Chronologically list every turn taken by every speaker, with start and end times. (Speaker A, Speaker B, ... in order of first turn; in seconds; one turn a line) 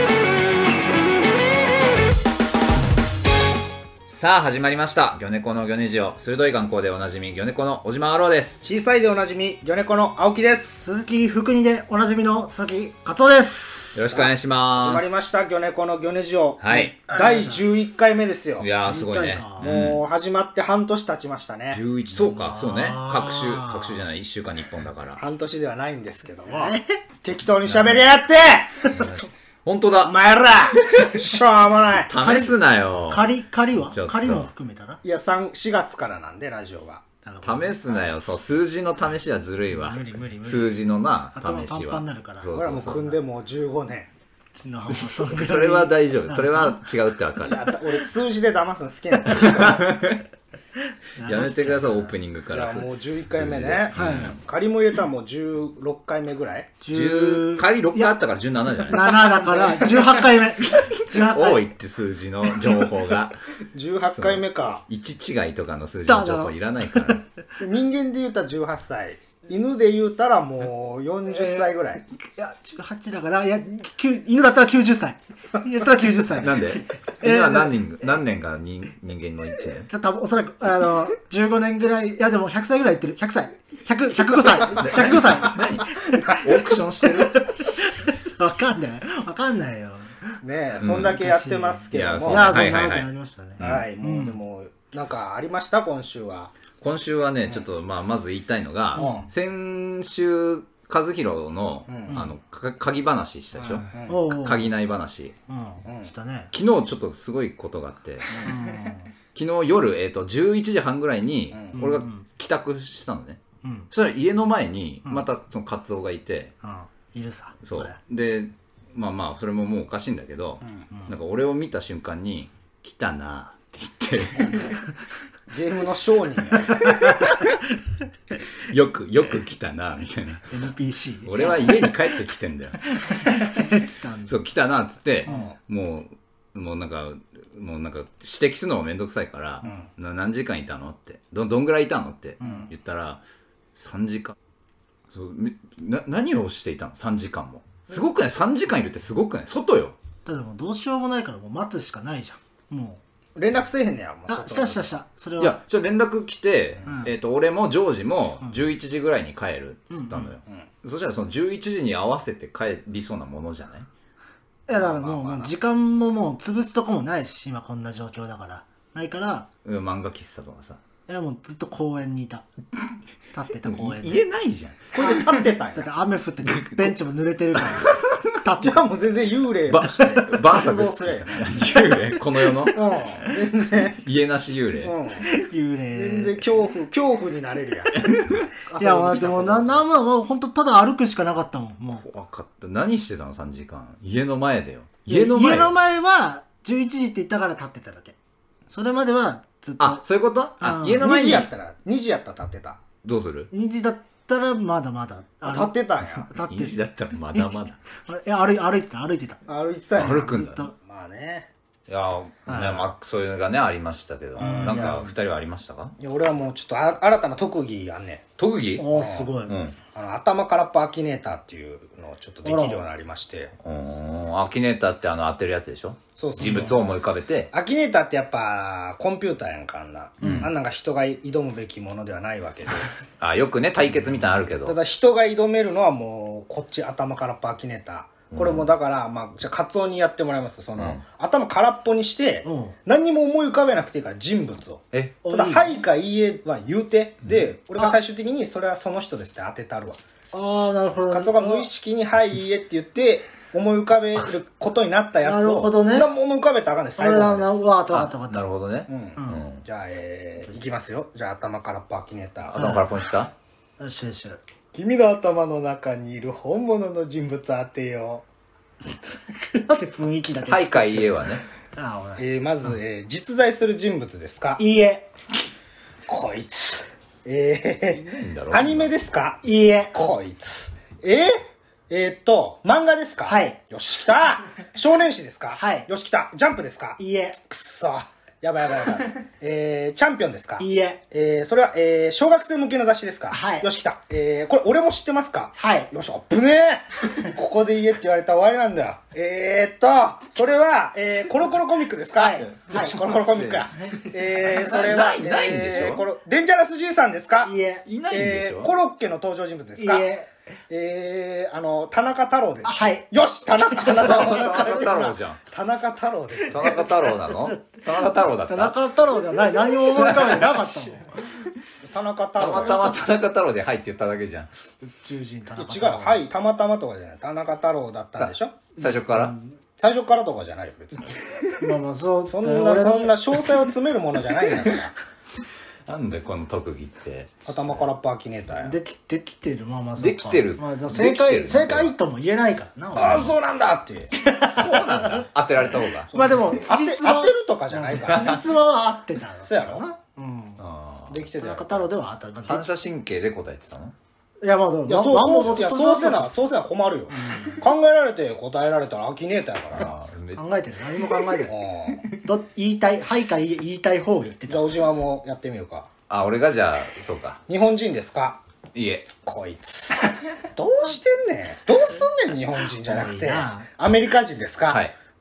Speaker A: 4.1-8.7
Speaker B: 8.6-10.8
Speaker C: 10.8-14.2
Speaker A: 13.9-15.1
Speaker B: 14.1-18.7
Speaker A: 16.6-16.9
Speaker C: 17.0-17.9
Speaker A: 18.6-20.0
Speaker C: 18.7-19.7
Speaker B: 19.6-21.8
Speaker A: 21.7-25.2
Speaker C: 22.1-24.0
Speaker B: 25.2-28.9
Speaker C: 26.5-26.8
Speaker A: 27.6-28.0
Speaker A: 28.9-30.1
Speaker B: 30.0-32.1
Speaker A: 30.8-31.2
Speaker A: 32.1-33.2
Speaker C: 32.1-32.6
Speaker C: 33.1-35.0
Speaker A: 33.9-34.5
Speaker B: 35.0-37.0
Speaker C: 37.2-37.8
Speaker A: 37.4-43.2
Speaker C: 39.7-40.8
Speaker C: 41.3-42.5
Speaker B: 42.5-44.1
Speaker C: 44.6-46.8
Speaker A: 44.9-47.7
Speaker B: 47.4-49.9
Speaker A: 49.3-50.2
Speaker C: 51.1-52.1
Speaker A: 51.2-54.4
Speaker B: 52.5-56.8
Speaker C: 53.9-54.4
Speaker C: 56.8-58.2
Speaker A: 56.9-59.3
Speaker C: 58.9-61.7
Speaker B: 59.1-60.3
Speaker A: 60.8-63.4
Speaker B: 63.7-64.8
Speaker A: 64.1-67.2
Speaker C: 66.0-67.2
Speaker B: 67.6-72.0
Speaker C: 71.3-71.7
Speaker C: 72.3-77.7
Speaker A: 76.4-79.9
Speaker C: 79.9-86.7
Speaker A: 84.7-87.5
Speaker B: 86.1-87.3
Speaker C: 87.3-90.4
Speaker B: 90.4-92.6
Speaker A: 90.8-91.2
Speaker C: 91.0-94.4
Speaker A: 91.9-93.9
Speaker B: 93.6-96.5
Speaker A: 96.8-105.3
Speaker C: 99.0-99.3
Speaker B: 99.0-99.3
Speaker B: 101.9-102.2
Speaker B: 103.6-104.2
Speaker C: 104.1-104.7
Speaker C: 105.5-106.5
Speaker B: 105.8-106.1
Speaker A: 106.5-108.5
Speaker C: 108.4-109.1
Speaker A: 109.3-116.5
Speaker B: 111.5-111.8
Speaker C: 111.8-112.2
Speaker C: 113.6-113.9
Speaker C: 116.6-118.0
Speaker A: 117.7-124.7
Speaker B: 124.4-124.7
Speaker B: 125.5-127.1
Speaker C: 126.7-127.8
Speaker A: 127.0-127.6
Speaker A: 128.6-130.6
Speaker C: 130.5-132.0
Speaker A: 131.2-132.8
Speaker C: 132.8-134.3
Speaker A: 134.3-143.2
Speaker C: 135.2-135.5
Speaker B: 135.2-135.6
Speaker C: 142.4-142.7
Speaker B: 142.4-142.7
Speaker A: 143.7-144.3
Speaker A: 145.1-150.0
Speaker C: 150.2-153.0
Speaker B: 153.3-154.9
Speaker C: 154.3-155.6
Speaker A: 155.4-163.9
Speaker C: 159.9-160.4
Speaker C: 164.7-169.5
Speaker B: 164.7-165.5
Speaker A: 169.6-170.8
Speaker C: 171.1-172.5
Speaker C: 173.3-174.2
Speaker A: 173.6-174.9
Speaker B: 174.9-175.9
Speaker C: 175.0-178.8
Speaker A: 176.4-176.9
Speaker A: 177.6-178.2
Speaker B: 178.6-181.7
Speaker A: 179.7-183.0
Speaker C: 179.9-180.6
Speaker B: 182.7-184.0
Speaker A: 184.0-184.9
Speaker B: 184.8-185.4
Speaker C: 185.2-186.4
Speaker B: 185.9-189.8
Speaker A: 188.0-188.5
Speaker C: 188.8-192.0
Speaker A: 192.0-195.7
Speaker C: 195.1-198.2
Speaker C: 198.7-200.0
Speaker A: 199.8-201.5
Speaker C: 200.6-201.4
Speaker B: 201.0-202.8
Speaker A: 203.0-203.5
Speaker C: 203.5-206.8
Speaker B: 205.4-206.3
Speaker A: 206.5-207.8
Speaker C: 207.3-209.4
Speaker B: 209.5-211.5
Speaker A: 209.9-210.6
Speaker C: 210.0-210.7
Speaker A: 211.9-215.9
Speaker C: 212.5-212.9
Speaker B: 214.4-215.0
Speaker C: 214.4-215.1
Speaker B: 216.0-218.2
Speaker A: 218.4-218.9
Speaker C: 218.8-219.6
Speaker B: 218.9-219.3
Speaker A: 219.4-219.8
Speaker B: 219.9-223.5
Speaker C: 222.4-222.8
Speaker A: 223.6-227.5
Speaker B: 226.2-226.8
Speaker B: 227.5-232.9
Speaker C: 230.2-230.5
Speaker A: 230.2-230.5
Speaker A: 233.2-234.8
Speaker B: 234.6-250.0
Speaker A: 238.3-238.7
Speaker C: 242.4-242.7
Speaker C: 245.2-245.8
Speaker C: 250.3-251.7
Speaker B: 251.1-257.5
Speaker C: 255.2-256.1
Speaker C: 257.0-258.5
Speaker A: 257.9-259.6
Speaker B: 258.9-262.8
Speaker C: 259.2-259.4
Speaker A: 262.4-263.3
Speaker C: 262.5-262.8
Speaker C: 263.8-264.4
Speaker B: 264.7-268.2
Speaker C: 269.4-272.2
Speaker A: 270.4-271.4
Speaker B: 272.2-274.6
Speaker C: 274.6-275.1
Speaker B: 276.1-279.4
Speaker A: 277.9-278.9
Speaker C: 279.4-280.1
Speaker B: 279.9-307.5
Speaker C: 283.2-283.6
Speaker C: 285.6-285.9
Speaker C: 287.0-287.4
Speaker C: 290.6-291.0
Speaker C: 293.3-293.7
Speaker C: 295.6-295.9
Speaker C: 302.2-303.0
Speaker A: 302.4-303.7
Speaker C: 303.8-304.1
Speaker A: 304.4-306.0
Speaker C: 307.4-307.9
Speaker A: 307.9-308.7
Speaker B: 308.1-310.1
Speaker C: 309.8-310.3
Speaker B: 310.7-316.9
Speaker C: 312.6-313.1
Speaker C: 313.6-315.1
Speaker A: 313.9-315.4
Speaker A: 316.4-318.8
Speaker C: 316.6-317.6
Speaker C: 318.5-321.5
Speaker A: 319.8-320.7
Speaker B: 321.8-323.0
Speaker A: 322.4-324.5
Speaker C: 324.9-326.2
Speaker B: 325.6-328.7
Speaker A: 328.2-329.3
Speaker C: 328.8-329.5
Speaker B: 329.8-331.6
Speaker C: 331.6-333.4
Speaker B: 332.2-334.9
Speaker A: 335.9-337.8
Speaker B: 337.4-338.7
Speaker C: 338.6-343.4
Speaker A: 340.0-341.9
Speaker B: 342.9-344.1
Speaker C: 344.1-345.2
Speaker A: 344.5-346.3
Speaker B: 346.1-348.4
Speaker C: 346.1-350.6
Speaker A: 348.1-348.4
Speaker B: 349.4-349.8
Speaker A: 350.6-351.2
Speaker B: 351.1-351.9
Speaker C: 351.4-352.7
Speaker A: 352.4-353.9
Speaker C: 354.4-356.3
Speaker B: 354.9-359.9
Speaker C: 357.1-357.6
Speaker A: 359.7-360.4
Speaker C: 360.3-361.6
Speaker B: 361.5-362.1
Speaker C: 362.1-364.8
Speaker B: 364.5-365.9
Speaker A: 366.1-367.4
Speaker B: 367.5-368.4
Speaker A: 368.7-369.1
Speaker B: 369.2-374.9
Speaker C: 372.8-373.7